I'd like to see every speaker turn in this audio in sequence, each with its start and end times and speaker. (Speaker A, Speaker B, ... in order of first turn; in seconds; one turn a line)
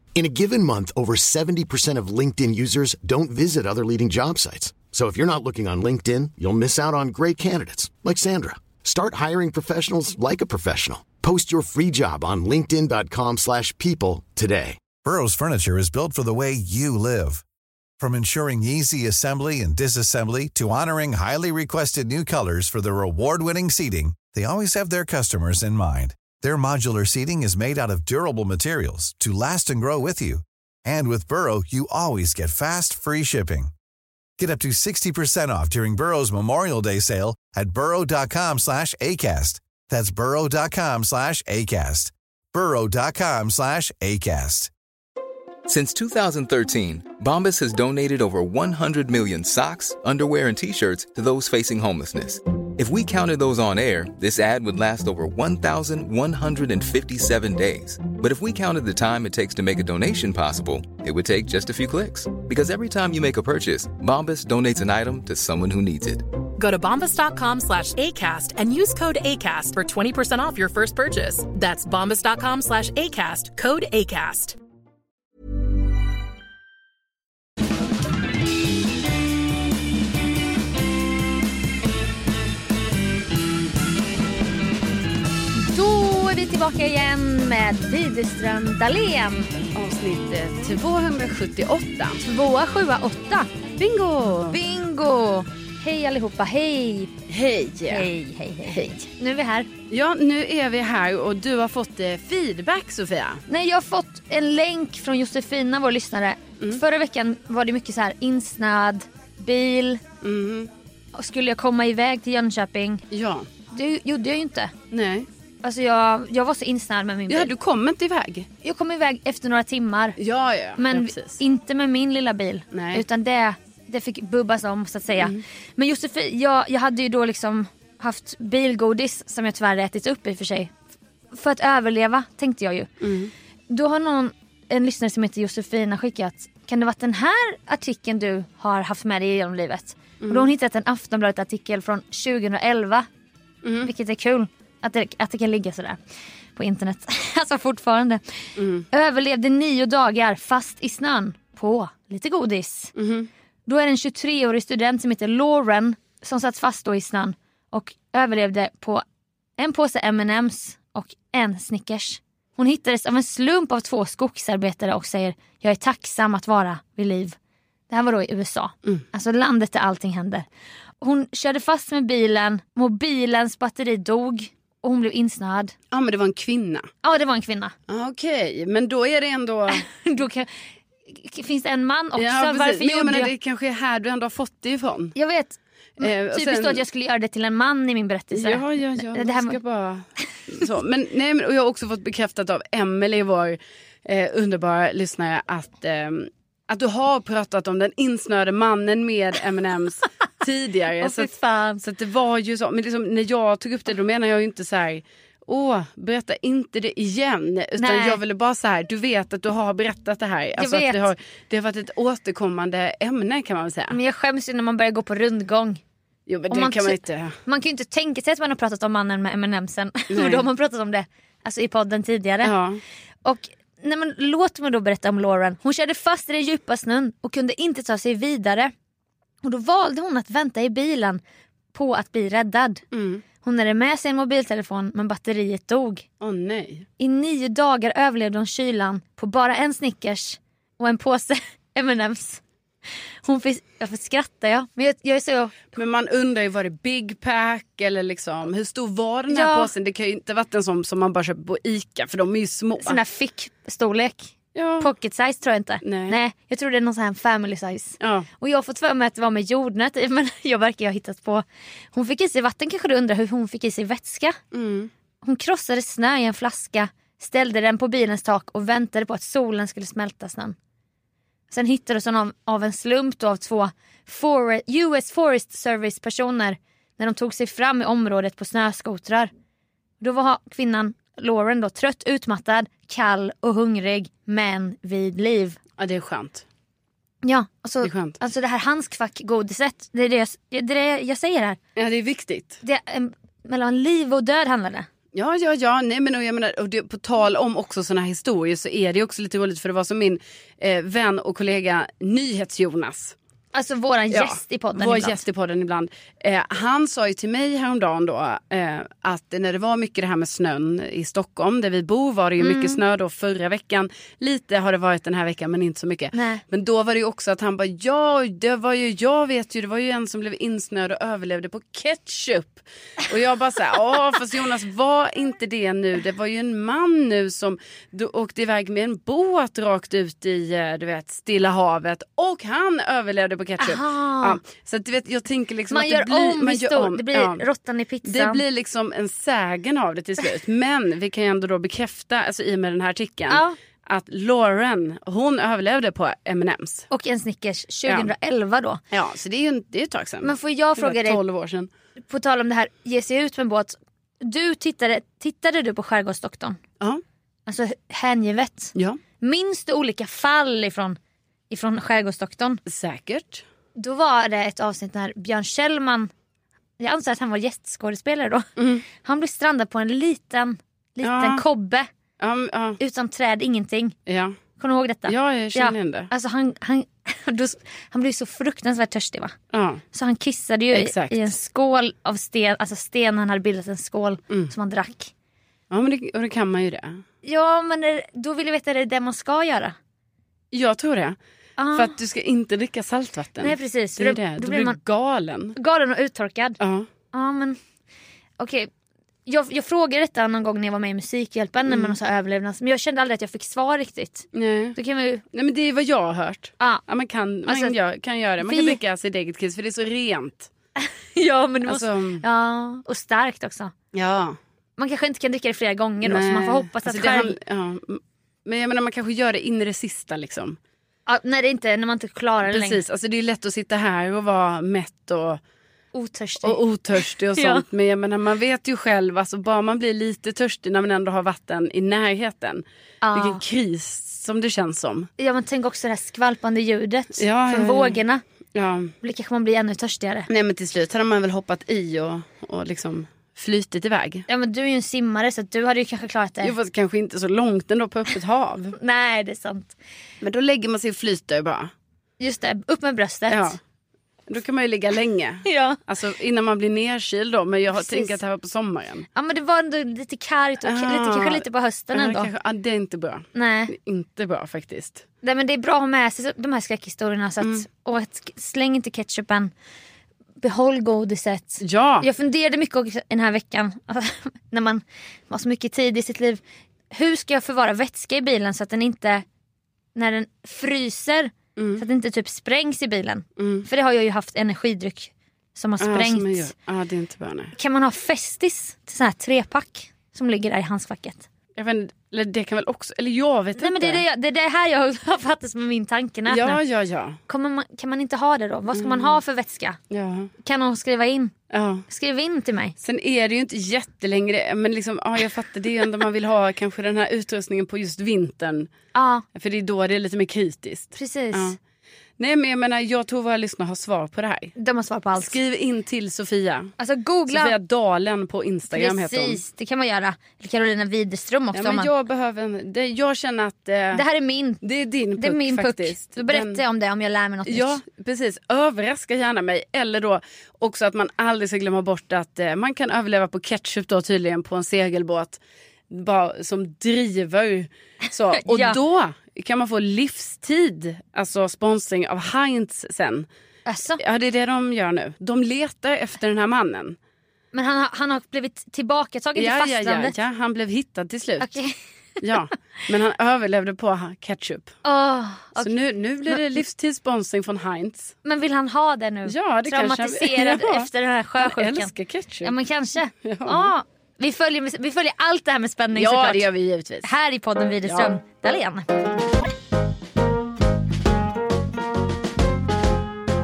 Speaker A: 0.2-14.8
Speaker B: 15.0-17.4
Speaker B: 18.0-33.7
Speaker B: 34.4-44.7
Speaker C: 45.7-66.3
Speaker D: 66.6-74.6
Speaker E: 85.6-89.5
Speaker F: 89.7-92.2
Speaker E: 92.2-93.5
Speaker F: 93.8-94.6
Speaker E: 94.5-97.1
Speaker F: 97.3-98.1
Speaker E: 97.9-99.7
Speaker F: 98.7-99.0
Speaker F: 99.9-103.4
Speaker E: 103.5-110.0
Speaker F: 110.2-110.7
Speaker E: 111.2-113.0
Speaker F: 113.1-113.5
Speaker E: 113.7-114.7
Speaker F: 114.9-115.3
Speaker E: 115.6-117.5
Speaker F: 117.3-118.5
Speaker E: 118.6-120.2
Speaker F: 120.2-121.4
Speaker E: 120.8-130.7
Speaker F: 122.7-123.0
Speaker E: 131.3-132.9
Speaker F: 133.0-133.3
Speaker E: 133.7-143.1
Speaker F: 140.2-140.5
Speaker F: 143.6-143.9
Speaker E: 143.8-146.0
Speaker E: 146.6-148.2
Speaker F: 148.6-148.9
Speaker E: 148.9-152.9
Speaker F: 152.9-153.3
Speaker E: 153.7-159.0
Speaker E: 159.6-167.4
Speaker E: 167.9-170.5
Speaker E: 171.0-175.7
Speaker F: 175.9-176.9
Speaker E: 177.0-177.7
Speaker F: 177.9-179.9
Speaker E: 179.7-183.3
Speaker F: 182.2-185.1
Speaker E: 185.2-189.6
Speaker F: 186.0-186.8
Speaker F: 188.3-214.0
Speaker E: 201.0-201.8
Speaker E: 207.8-208.2
Speaker E: 210.6-211.1
Speaker E: 213.9-215.8
Speaker F: 216.3-217.4
Speaker E: 216.5-222.5
Speaker F: 220.1-220.5
Speaker F: 222.4-222.8
Speaker E: 223.2-228.7
Speaker E: 229.4-231.2
Speaker E: 231.7-232.8
Speaker F: 232.9-233.2
Speaker E: 233.4-236.0
Speaker F: 236.2-236.9
Speaker E: 237.0-242.4
Speaker E: 243.2-245.6
Speaker F: 245.7-253.0
Speaker E: 249.3-249.7
Speaker E: 252.8-264.4
Speaker F: 254.6-254.9
Speaker F: 255.8-256.2
Speaker F: 258.0-258.3
Speaker F: 264.5-264.9
Speaker E: 265.2-270.6
Speaker E: 271.5-279.3
Speaker E: 280.0-285.6
Speaker F: 285.8-286.4
Speaker E: 287.2-291.6
Speaker F: 287.8-288.2
Speaker F: 291.8-292.6
Speaker E: 292.6-294.9
Speaker F: 295.1-303.2
Speaker E: 303.5-305.2
Speaker F: 304.1-337.4
Speaker E: 312.4-312.8
Speaker E: 316.1-316.4
Speaker E: 333.6-334.4
Speaker E: 335.7-338.4
Speaker F: 338.1-346.9
Speaker E: 343.3-343.6
Speaker E: 346.9-348.8
Speaker F: 348.9-351.7
Speaker E: 350.2-351.2
Speaker E: 352.1-356.6
Speaker E: 357.5-361.0
Speaker E: 361.5-362.6
Speaker F: 362.7-363.4
Speaker E: 363.8-366.1
Speaker E: 366.8-368.4
Speaker F: 368.6-368.9
Speaker E: 369.0-371.9
Speaker F: 371.0-371.4
Speaker F: 372.2-372.8
Speaker E: 372.8-374.0
Speaker F: 374.1-374.4
Speaker E: 374.6-379.4
Speaker F: 375.1-376.1
Speaker F: 379.5-379.8
Speaker E: 379.9-385.1
Speaker F: 380.7-381.3
Speaker F: 385.7-387.0
Speaker E: 387.2-389.8
Speaker F: 390.5-391.2
Speaker E: 391.6-391.9
Speaker F: 391.7-395.6
Speaker E: 393.4-394.8
Speaker E: 395.6-396.6
Speaker F: 396.6-396.9
Speaker E: 397.1-397.6
Speaker E: 398.4-398.7
Speaker E: 399.3-405.2
Speaker F: 401.7-402.0
Speaker F: 404.3-404.8
Speaker F: 405.3-410.5
Speaker E: 407.5-407.7
Speaker E: 408.4-408.8
Speaker E: 410.8-413.7
Speaker F: 411.7-412.2
Speaker F: 413.9-414.4
Speaker E: 414.8-417.4
Speaker F: 416.0-420.6
Speaker E: 421.1-422.8
Speaker F: 422.5-425.4
Speaker E: 425.9-426.6
Speaker F: 426.4-435.1
Speaker E: 427.4-427.6
Speaker E: 433.0-433.4
Speaker E: 435.2-438.2
Speaker F: 437.2-438.0
Speaker F: 438.6-438.9
Speaker E: 439.0-440.3
Speaker F: 440.3-444.3
Speaker E: 444.3-446.5
Speaker F: 446.4-448.8
Speaker E: 448.8-449.8
Speaker F: 450.2-451.7
Speaker E: 452.2-453.6
Speaker F: 453.3-453.6
Speaker F: 454.3-459.1
Speaker E: 455.5-455.8
Speaker E: 457.7-458.2
Speaker E: 459.1-462.3
Speaker F: 460.6-465.1
Speaker E: 463.4-463.7
Speaker E: 465.2-469.5
Speaker E: 470.4-476.4
Speaker F: 471.6-472.1
Speaker E: 476.9-479.2
Speaker E: 479.9-486.5
Speaker F: 481.6-481.8
Speaker F: 483.4-483.7
Speaker F: 485.8-487.5
Speaker E: 487.6-491.3
Speaker F: 491.6-494.0
Speaker E: 493.6-496.6
Speaker F: 496.3-497.2
Speaker E: 497.3-499.8
Speaker F: 498.7-499.2
Speaker F: 499.9-500.3
Speaker E: 500.4-501.3
Speaker F: 501.5-501.9
Speaker E: 501.9-502.7
Speaker F: 502.8-508.7
Speaker E: 508.9-509.2
Speaker F: 509.4-511.6
Speaker E: 511.0-511.6
Speaker F: 512.2-514.6
Speaker E: 514.6-515.4
Speaker F: 515.2-516.7
Speaker E: 516.8-517.5
Speaker F: 517.3-519.4
Speaker E: 518.7-521.9
Speaker F: 521.5-524.0
Speaker E: 523.9-524.6
Speaker F: 524.6-526.6
Speaker E: 525.2-527.8
Speaker F: 527.5-543.3
Speaker E: 538.4-538.8
Speaker E: 543.7-544.0
Speaker F: 544.0-547.0
Speaker E: 547.5-550.1
Speaker F: 549.4-551.5
Speaker E: 551.4-552.3
Speaker F: 552.2-554.8
Speaker E: 554.9-555.8
Speaker F: 555.6-558.2
Speaker E: 558.2-561.9
Speaker F: 559.3-562.5
Speaker E: 562.4-566.5
Speaker F: 563.2-563.7
Speaker F: 566.0-567.1
Speaker E: 567.0-568.9
Speaker F: 567.9-568.1